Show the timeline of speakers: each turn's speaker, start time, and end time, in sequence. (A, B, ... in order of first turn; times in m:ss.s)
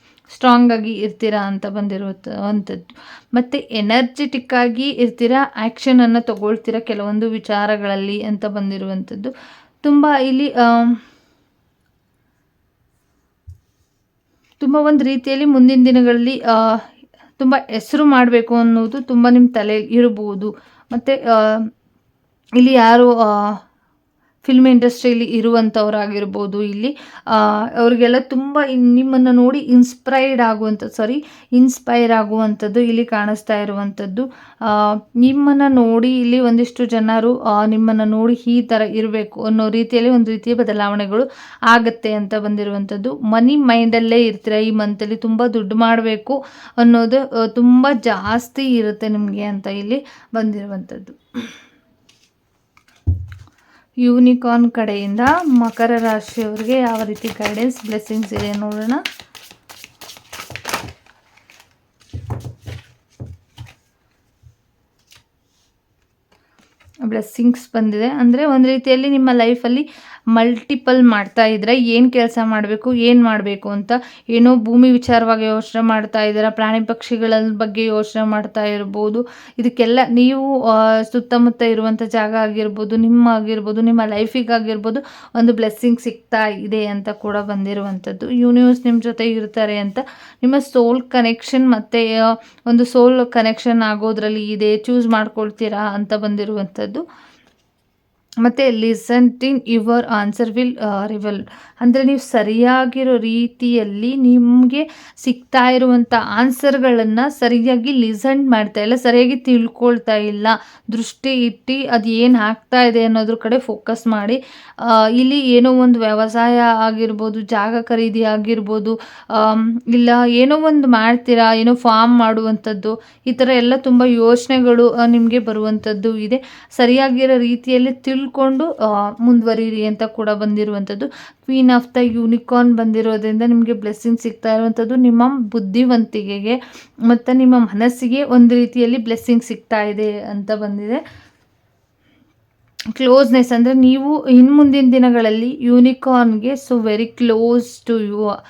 0:00.3-0:09.3 A
0:09.8-0:11.0 A
0:14.6-0:16.8 A
0:17.4-0:21.7 A
0:22.6-0:23.6 A
0:24.4-0:51.2 A
0:54.0-0:59.0 A
1:07.1-1:37.0 A
1:38.4-2:21.0 A
2:22.9-2:28.3 A